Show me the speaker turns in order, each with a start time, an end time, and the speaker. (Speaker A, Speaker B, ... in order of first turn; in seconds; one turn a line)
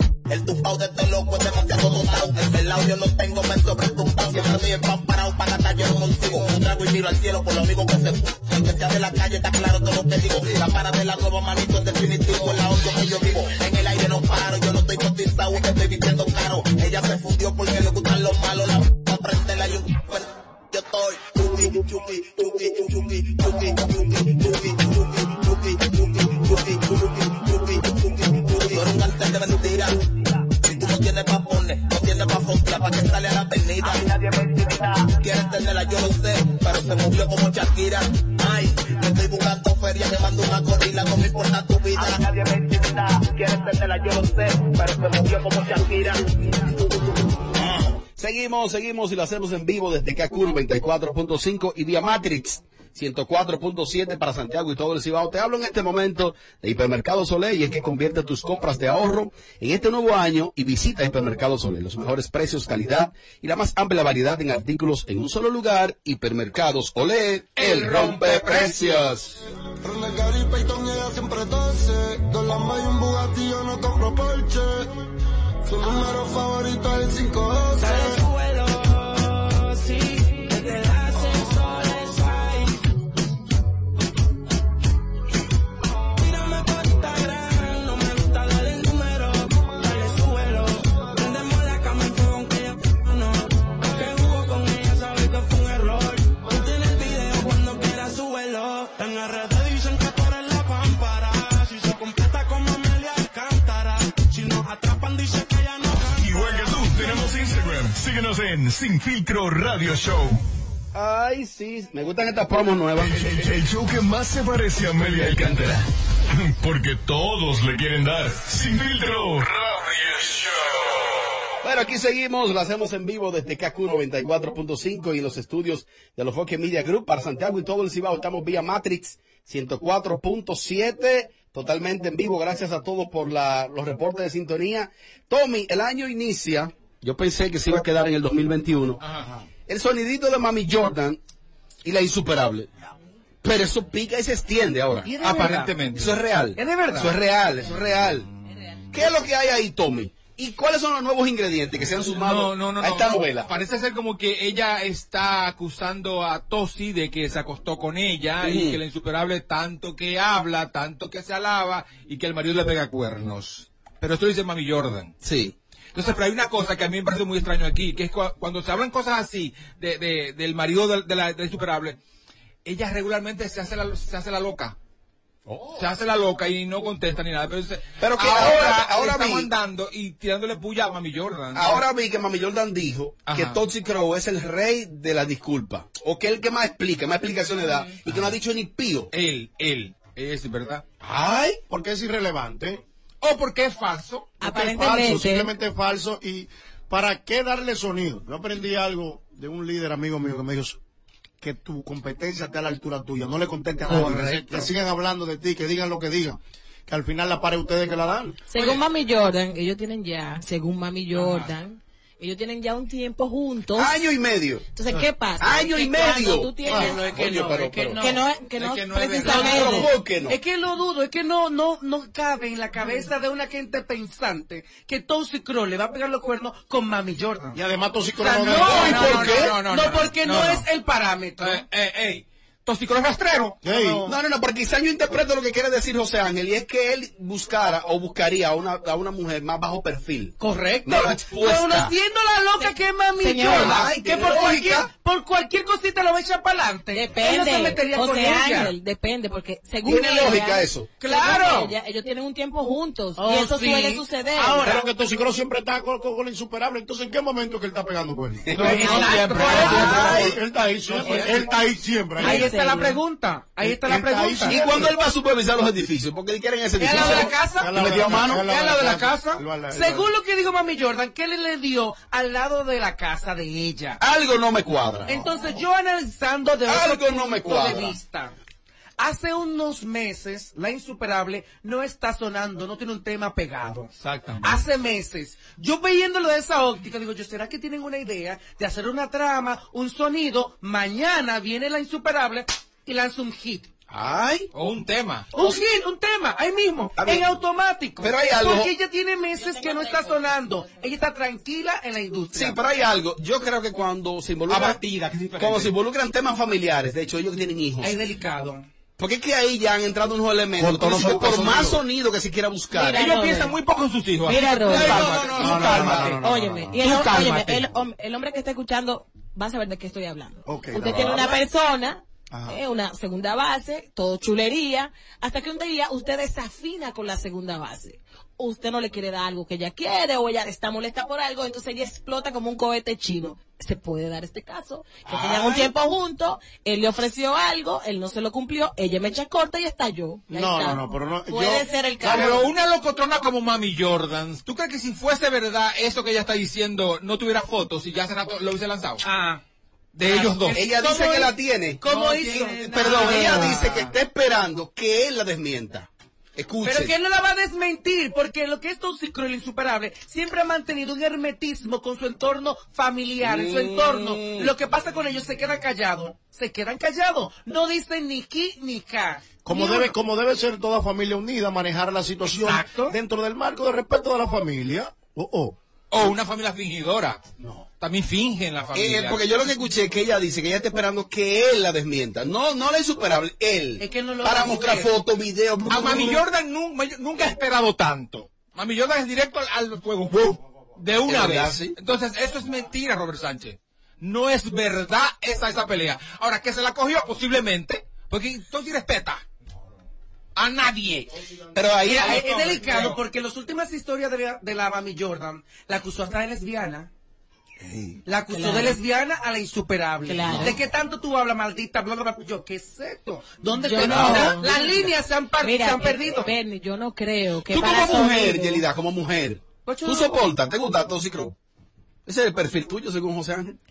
Speaker A: 0.3-27.7
Speaker A: 28.5-30.0
Speaker A: 30.6-46.2
Speaker B: 48.2-69.3
Speaker C: 67.6-69.0
Speaker D: 69.8-74.8
Speaker D: 75.7-78.2
Speaker E: 77.8-82.8
Speaker E: 86.3-105.9
Speaker F: 106.1-110.4
Speaker B: 110.9-113.5
Speaker F: 113.0-120.4
Speaker B: 121.6-139.0
Speaker G: 139.0-139.3
Speaker B: 139.7-141.2
Speaker B: 141.8-142.7
Speaker B: 143.4-145.1
Speaker C: 145.0-145.8
Speaker G: 145.2-146.1
Speaker B: 145.9-148.3
Speaker C: 146.6-147.2
Speaker B: 148.9-153.5
Speaker G: 152.1-165.1
Speaker B: 158.4-158.8
Speaker B: 165.2-165.6
Speaker G: 165.9-172.0
Speaker G: 172.7-174.8
Speaker G: 175.8-181.8
Speaker B: 178.0-179.5
Speaker B: 181.5-189.1
Speaker G: 183.3-183.6
Speaker G: 189.1-190.9
Speaker B: 191.1-191.5
Speaker H: 191.7-192.8
Speaker G: 193.2-194.3
Speaker I: 194.4-195.5
Speaker H: 194.4-200.8
Speaker H: 201.4-208.4
Speaker C: 203.9-204.7
Speaker I: 208.5-214.0
Speaker B: 213.8-214.7
Speaker I: 214.8-217.0
Speaker B: 215.4-218.0
Speaker C: 216.6-218.2
Speaker I: 218.0-219.9
Speaker G: 218.5-219.7
Speaker C: 219.2-219.7
Speaker B: 219.3-220.4
Speaker C: 220.3-227.6
Speaker H: 227.5-229.4
Speaker C: 228.2-231.6
Speaker G: 228.5-230.7
Speaker B: 228.7-229.6
Speaker G: 231.4-233.6
Speaker H: 233.6-234.1
Speaker C: 233.7-234.0
Speaker B: 234.1-241.9
Speaker C: 240.4-248.7
Speaker I: 242.6-243.7
Speaker B: 243.4-244.9
Speaker I: 246.9-254.7
Speaker B: 249.8-250.9
Speaker C: 251.0-251.8
Speaker C: 253.2-254.9
Speaker H: 254.6-262.5
Speaker B: 258.5-260.2
Speaker G: 258.6-260.3
Speaker C: 258.6-260.4
Speaker C: 261.0-261.5
Speaker I: 262.2-263.0
Speaker C: 262.2-264.8
Speaker H: 263.6-265.0
Speaker B: 264.5-268.4
Speaker C: 266.8-274.0
Speaker H: 267.0-270.1
Speaker B: 274.0-275.3
Speaker C: 275.1-278.4
Speaker B: 276.7-277.9
Speaker C: 279.0-283.9
Speaker G: 284.0-284.6
Speaker C: 284.4-293.7
Speaker B: 293.9-294.5
Speaker G: 294.5-295.3
Speaker C: 295.3-302.6
Speaker B: 297.0-297.3
Speaker B: 298.0-298.7
Speaker I: 299.4-300.9
Speaker B: 302.3-304.8
Speaker G: 304.5-305.7
Speaker B: 305.4-307.9
Speaker C: 307.8-308.7
Speaker B: 309.0-313.1
Speaker H: 310.6-311.7
Speaker I: 312.7-313.5
Speaker G: 313.0-316.1
Speaker I: 314.2-315.0
Speaker B: 314.6-316.2
Speaker C: 314.7-316.1
Speaker H: 315.3-316.8
Speaker I: 316.2-342.4
Speaker G: 316.8-317.6
Speaker H: 320.4-321.2
Speaker H: 322.3-322.6
Speaker G: 335.1-335.6
Speaker H: 340.3-342.5
Speaker G: 342.0-349.0
Speaker C: 349.0-349.4
Speaker G: 350.0-350.7
Speaker C: 350.0-353.8
Speaker B: 350.6-351.8
Speaker G: 351.9-353.6
Speaker B: 352.6-356.9
Speaker C: 356.6-369.9
Speaker B: 363.2-364.5
Speaker H: 369.4-375.6
Speaker C: 372.4-373.0
Speaker G: 375.9-377.2
Speaker G: 377.8-379.2
Speaker B: 378.7-386.2
Speaker C: 383.8-384.9
Speaker G: 385.7-399.2
Speaker B: 391.1-391.8
Speaker G: 400.4-401.1
Speaker B: 401.6-402.3
Speaker C: 401.8-406.9
Speaker G: 401.8-403.0
Speaker C: 408.1-416.3
Speaker I: 408.3-408.8
Speaker I: 410.1-410.6
Speaker I: 413.6-414.9
Speaker I: 415.4-418.6
Speaker B: 417.5-421.4
Speaker C: 419.7-420.2
Speaker B: 422.1-423.6